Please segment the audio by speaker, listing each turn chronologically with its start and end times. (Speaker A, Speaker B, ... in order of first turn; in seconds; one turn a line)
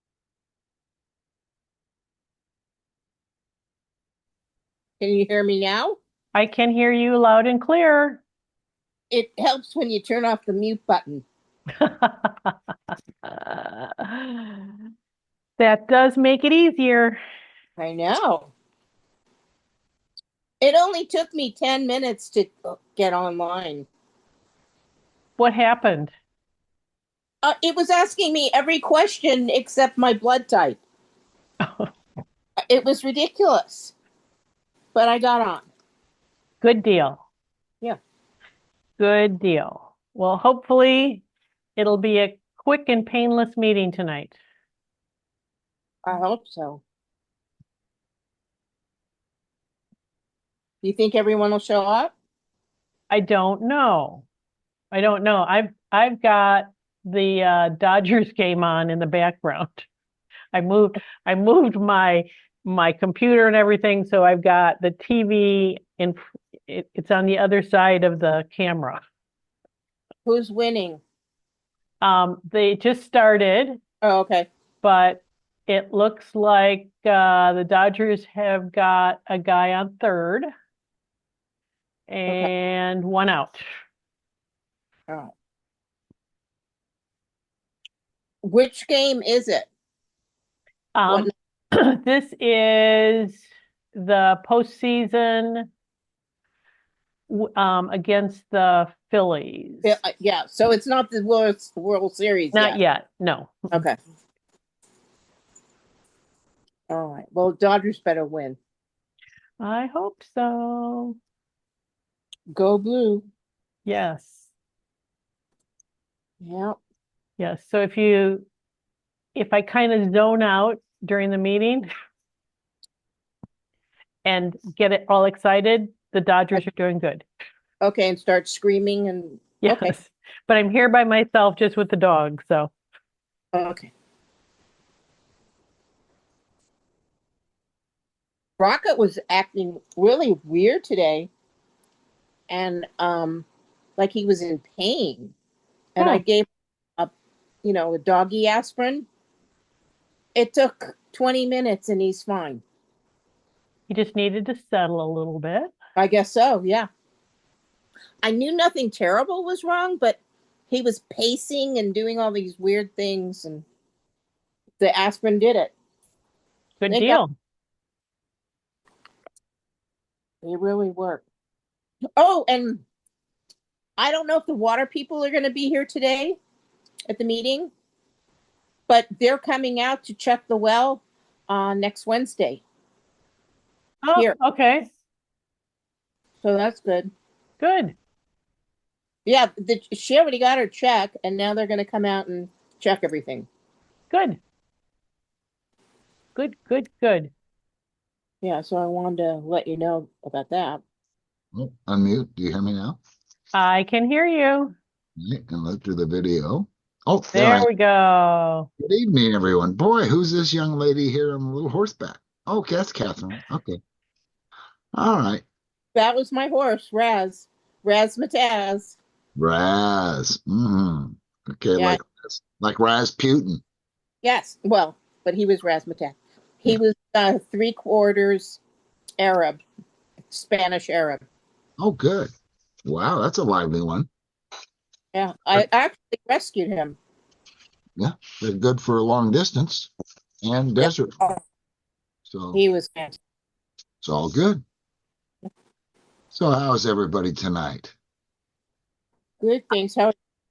Speaker A: 5.0-6.0
Speaker B: 6.3-8.2
Speaker A: 9.1-11.2
Speaker B: 11.8-12.5
Speaker B: 13.2-14.7
Speaker B: 15.6-17.2
Speaker A: 17.8-18.5
Speaker A: 20.6-23.9
Speaker B: 25.4-26.1
Speaker A: 27.4-30.8
Speaker B: 31.6-31.9
Speaker A: 32.7-33.9
Speaker A: 34.9-35.7
Speaker B: 36.6-37.2
Speaker B: 39.0-41.2
Speaker B: 41.8-44.4
Speaker A: 46.0-46.8
Speaker A: 50.8-52.1
Speaker B: 53.1-54.2
Speaker B: 54.9-59.9
Speaker B: 60.5-69.0
Speaker A: 70.2-71.0
Speaker B: 72.0-73.8
Speaker A: 74.0-74.5
Speaker B: 74.8-80.5
Speaker B: 82.1-83.6
Speaker A: 88.4-89.7
Speaker B: 90.9-93.4
Speaker B: 93.9-95.7
Speaker B: 97.3-100.0
Speaker A: 99.8-102.8
Speaker B: 102.5-103.7
Speaker A: 103.7-104.0
Speaker A: 106.9-108.6
Speaker B: 109.6-111.2
Speaker A: 112.5-113.2
Speaker B: 113.8-114.5
Speaker A: 116.4-116.8
Speaker B: 117.4-118.5
Speaker B: 119.3-121.9
Speaker B: 124.2-127.2
Speaker A: 127.8-129.9
Speaker B: 129.6-132.7
Speaker A: 133.5-133.9
Speaker A: 138.6-141.3
Speaker A: 142.5-143.4
Speaker A: 144.0-145.3
Speaker A: 145.9-147.1
Speaker A: 147.6-149.1
Speaker A: 150.3-152.6
Speaker B: 153.9-155.7
Speaker A: 155.9-156.9
Speaker A: 158.2-163.7
Speaker A: 164.8-165.7
Speaker B: 166.8-167.3
Speaker A: 166.9-167.2
Speaker A: 170.4-171.2
Speaker A: 172.2-172.8
Speaker A: 174.0-176.4
Speaker A: 177.1-177.7
Speaker A: 178.9-182.6
Speaker B: 184.0-184.9
Speaker A: 186.4-187.1
Speaker B: 187.6-187.9
Speaker A: 189.2-193.5
Speaker B: 194.1-194.4
Speaker B: 196.3-197.3
Speaker A: 198.4-200.8
Speaker C: 201.5-203.0
Speaker B: 203.5-204.7
Speaker C: 205.2-207.7
Speaker B: 207.3-208.7
Speaker C: 208.8-213.8
Speaker C: 214.9-215.4
Speaker A: 215.9-219.0
Speaker C: 219.3-223.6
Speaker A: 224.2-228.6
Speaker A: 229.2-229.6
Speaker A: 230.3-231.2
Speaker C: 231.8-232.3
Speaker C: 232.8-234.1
Speaker A: 235.1-237.0
Speaker C: 238.0-239.9
Speaker C: 240.4-241.2
Speaker A: 240.8-241.4
Speaker C: 242.3-242.6
Speaker A: 242.5-243.2
Speaker C: 244.0-244.6
Speaker C: 246.3-247.9
Speaker A: 249.4-250.1